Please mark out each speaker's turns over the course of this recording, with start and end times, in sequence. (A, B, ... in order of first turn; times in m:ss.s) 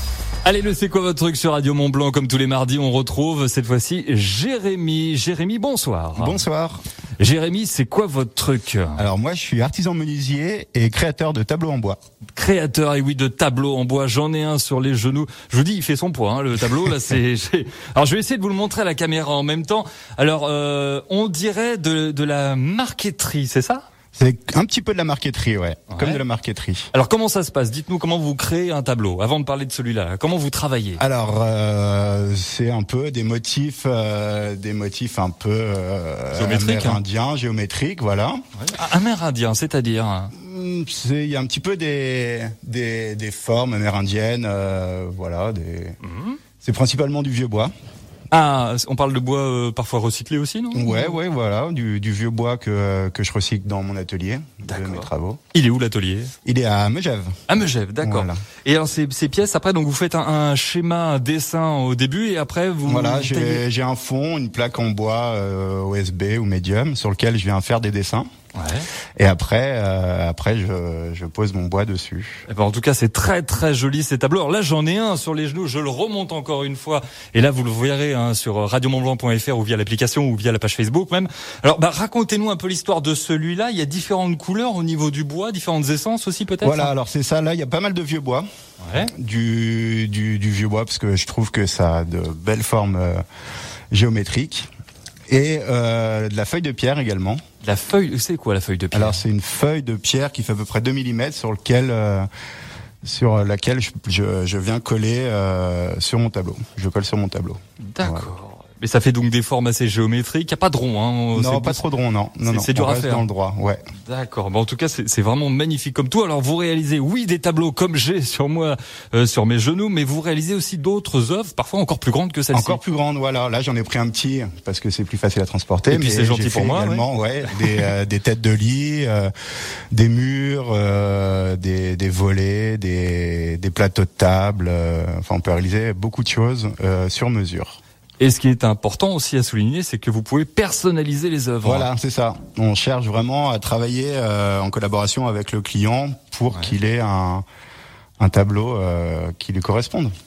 0:00.4-0:06.4 A
0:06.2-0:06.8 B
0:07.2-0:09.0 A
0:09.0-0:12.0 B
0:12.4-0:23.8 A
0:24.1-0:26.9 B
0:25.9-0:26.2 A
0:26.9-0:31.0 A
0:31.0-0:38.4 B
0:36.3-0:37.0 A
0:38.6-0:40.3 A
0:40.3-0:46.0 B
0:46.0-0:46.4 A
0:46.6-0:47.7 B
0:48.3-0:51.2 A
0:50.7-0:55.4 B
0:54.6-0:56.3 A
0:56.4-0:57.3 B
0:57.5-1:03.6 A
0:58.0-0:58.4 B
1:02.8-1:08.3 B
1:08.6-1:08.9 A
1:09.2-1:12.4 B
1:12.5-1:26.9 A
1:26.6-1:33.2 B
1:28.8-1:29.1 A
1:33.9-1:34.7 B
1:35.3-1:37.4 B
1:37.6-1:39.2 A
1:38.9-1:42.3 B
1:43.0-1:48.3 B
1:47.9-1:51.8 A
1:51.3-1:53.8 B
1:52.4-1:53.2 A
1:54.0-2:02.8 A
2:02.5-2:09.3 B
2:05.9-2:07.9 A
2:09.9-2:17.8 B
2:18.2-2:21.9 A
2:21.6-2:27.4 B
2:28.2-2:30.1 B